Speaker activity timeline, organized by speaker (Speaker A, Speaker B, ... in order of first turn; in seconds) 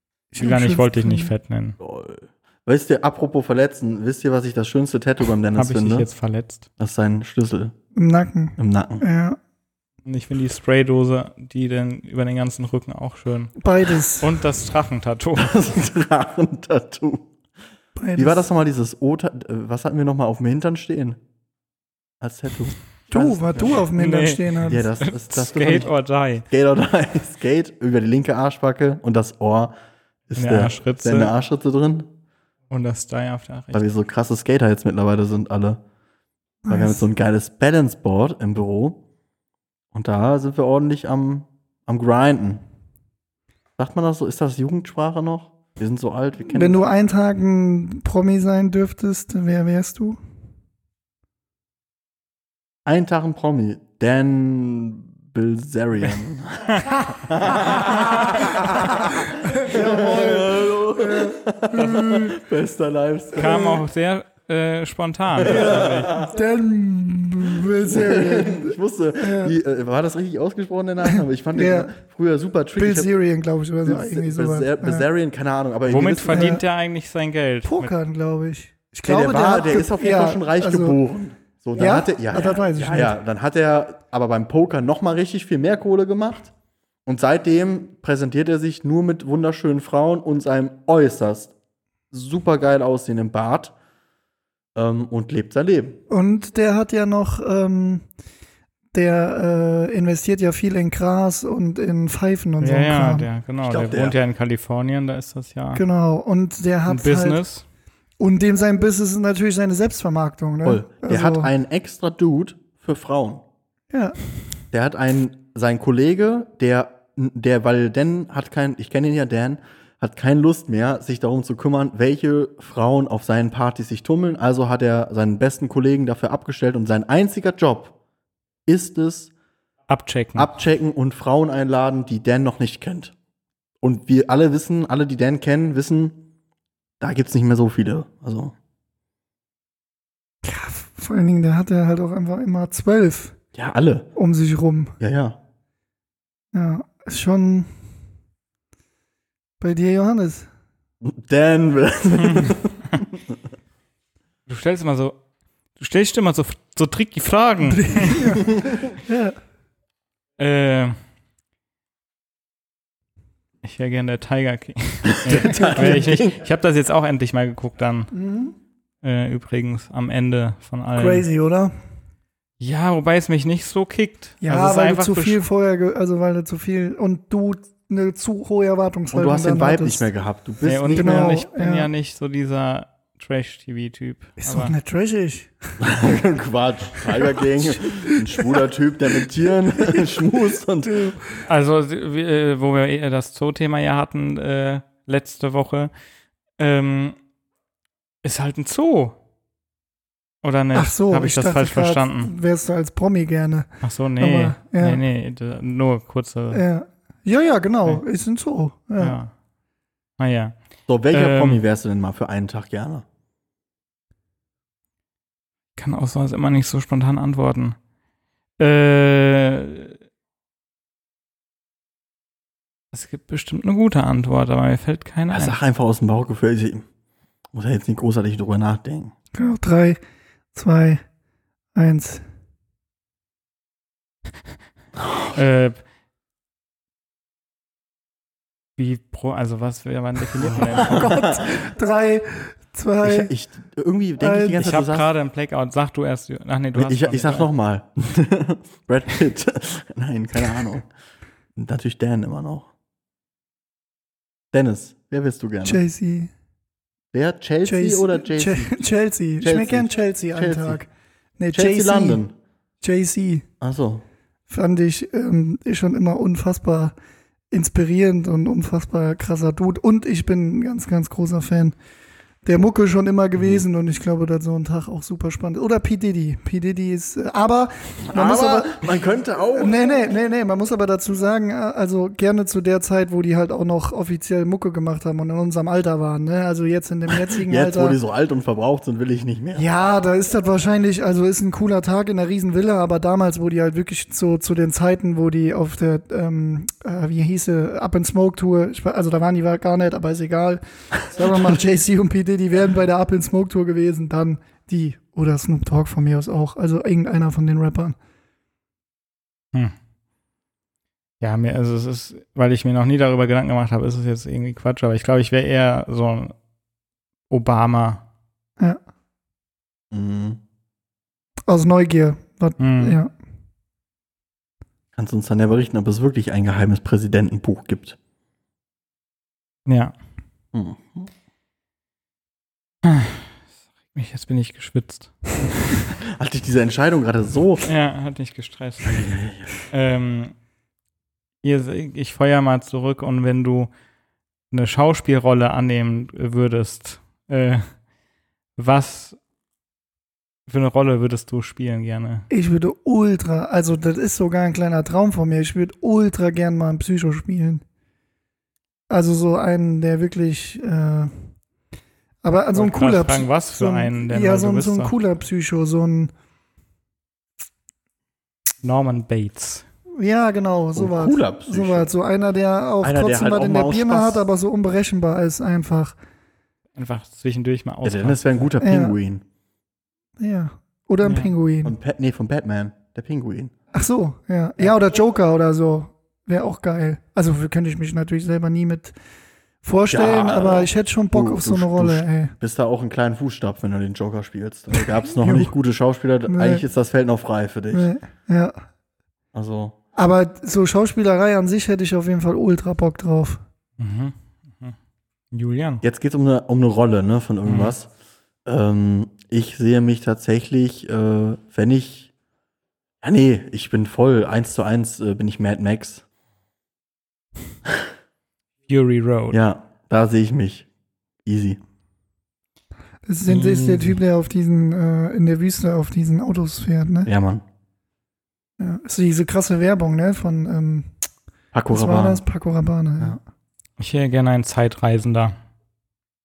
Speaker A: 0.3-1.3, 8.0-9.4, 13.6-14.4, 18.0-18.5, 23.1-24.8, 36.6-37.0, 46.5-50.2, 59.3-62.4, 63.4-63.8, 65.4-69.5, 71.1-71.9, 72.8-75.1, 76.3-76.6, 77.7-81.0, 81.8-83.2, 96.1-98.1, 98.9-103.3, 105.8-107.4, 108.2-111.5, 113.9-114.2, 140.4-143.3, 144.2-145.0, 146.5-147.7, 149.6-150.5, 157.7-159.4, 165.3-166.1, 168.1-168.6, 170.9-171.7, 174.4-180.1, 180.9-181.9, 184.4-185.8, 187.2-188.6, 189.9-191.4, 200.7-205.0, 206.5-209.2, 229.3-230.0, 230.5-231.0, 231.8-232.2, 240.6-243.3, 244.2-244.7, 255.6-256.3, 257.6-260.9, 261.4-262.2, 262.8-263.5, 264.5-266.9, 267.5-271.8, 272.4-278.8, 279.6-288.0, 289.6-308.0, 321.5-323.1, 352.3-357.6, 358.9-361.3, 362.2-366.1, 370.0-376.0, 378.6-379.0, 380.2-381.8, 383.7-388.9, 389.6-392.3, 395.0-395.5, 396.3-396.6, 397.7-398.6, 400.0-403.4, 423.1-427.1, 428.6-430.9, 431.7-433.2
Speaker B: 0.4-1.8, 5.5-6.7, 10.1-13.6, 14.2-15.6, 23.9-26.5, 30.4-31.3, 32.7-34.0, 63.4-66.1, 75.9-77.9, 102.6-105.8, 106.9-107.6, 129.9-130.5, 154.5-155.2, 155.8-158.4, 160.4-161.0, 163.6-168.1, 169.0-171.3, 172.6-175.4, 180.6-184.8, 191.4-195.9, 196.6-197.2, 198.2-199.2, 200.4-202.3, 203.8-206.6, 209.0-209.3, 210.2-210.6, 211.1-211.6, 215.8-217.8, 218.6-219.9, 222.9-225.6, 235.3-235.8, 238.8-241.2, 244.6-247.5, 311.2-316.3, 317.3-318.0, 322.6-323.0, 329.7-329.9, 332.8-333.3, 333.9-335.8, 337.6-339.2, 339.7-340.3, 341.4-343.7, 344.5-347.7, 348.6-349.2, 350.5-352.3, 362.6-364.9, 368.6-369.6, 376.8-378.4, 381.0-381.3, 403.8-404.8, 405.3-405.8, 407.5-407.7, 418.7-419.4, 433.8-435.4
Speaker C: 1.8-6.1, 6.8-7.7, 8.6-9.0, 15.4-17.3, 18.2-21.2, 22.2-23.8, 24.7-25.9, 26.5-29.7, 30.3-32.1, 33.7-35.8, 36.7-39.0, 39.9-42.6, 43.8-46.8, 52.9-63.7, 65.4-66.3, 67.8-73.1, 73.8-76.6, 79.0-86.5, 87.1-91.5, 92.1-93.7, 94.8-96.0, 103.6-104.2, 110.6-113.4, 114.7-127.9, 128.7-129.3, 130.4-133.1, 133.8-136.2, 137.0-138.5, 143.6-144.1, 145.0-145.4, 151.0-153.2, 158.4-158.8, 165.1-166.4, 179.1-181.4, 185.8-191.1, 210.9-213.1, 225.3-226.8, 227.5-229.1, 235.0-235.3, 240.4-241.5, 243.0-245.1, 246.8-250.9, 251.6-252.7, 254.5-255.8, 257.1-258.8, 259.4-260.8, 261.5-262.3, 263.6-264.0, 273.4-273.6, 278.0-279.9, 287.4-289.7, 319.9-320.4, 325.0-328.0, 330.5-331.1, 336.0-337.7, 338.9-339.5, 370.8-371.9, 372.8-374.2, 377.8-379.2, 381.6-383.5, 389.9-397.9, 399.3-399.8, 405.8-407.9, 408.4-412.1, 413.0-416.0, 419.3-420.7, 421.2-421.6, 423.3-423.8, 427.1-427.4, 431.5-432.2